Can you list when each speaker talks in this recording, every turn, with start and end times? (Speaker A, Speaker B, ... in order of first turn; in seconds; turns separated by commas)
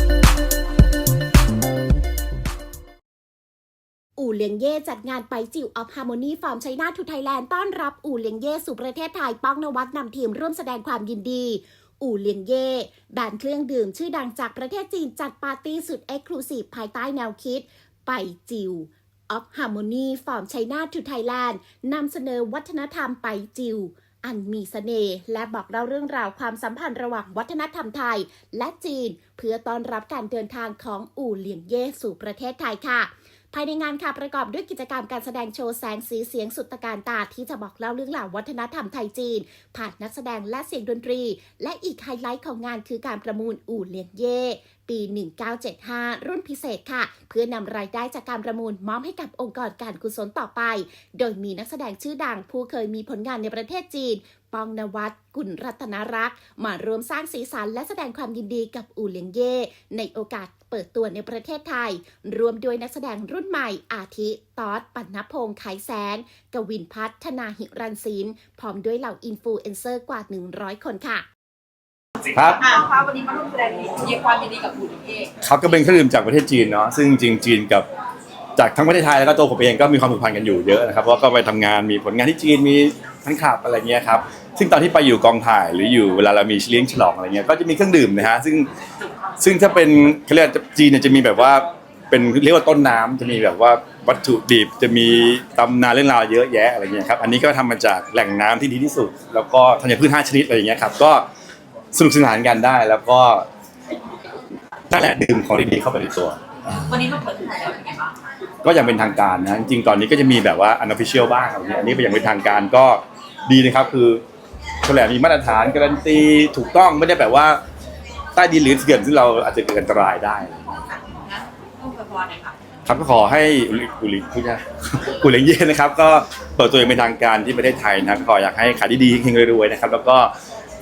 Speaker A: 4.2-71.2, Speaker B: 72.3-72.6, Speaker C: 72.6-75.3, Speaker B: 75.4-77.9, Speaker B: 78.6-88.7, Speaker B: 89.4-101.2, Speaker B: 101.9-103.5, Speaker B: 104.9-106.4, Speaker C: 106.8-108.1, Speaker B: 108.6-114.2, Speaker B: 114.8-117.6, Speaker B: 118.3-120.6, Speaker C: 121.1-122.5, Speaker B: 122.8-130.3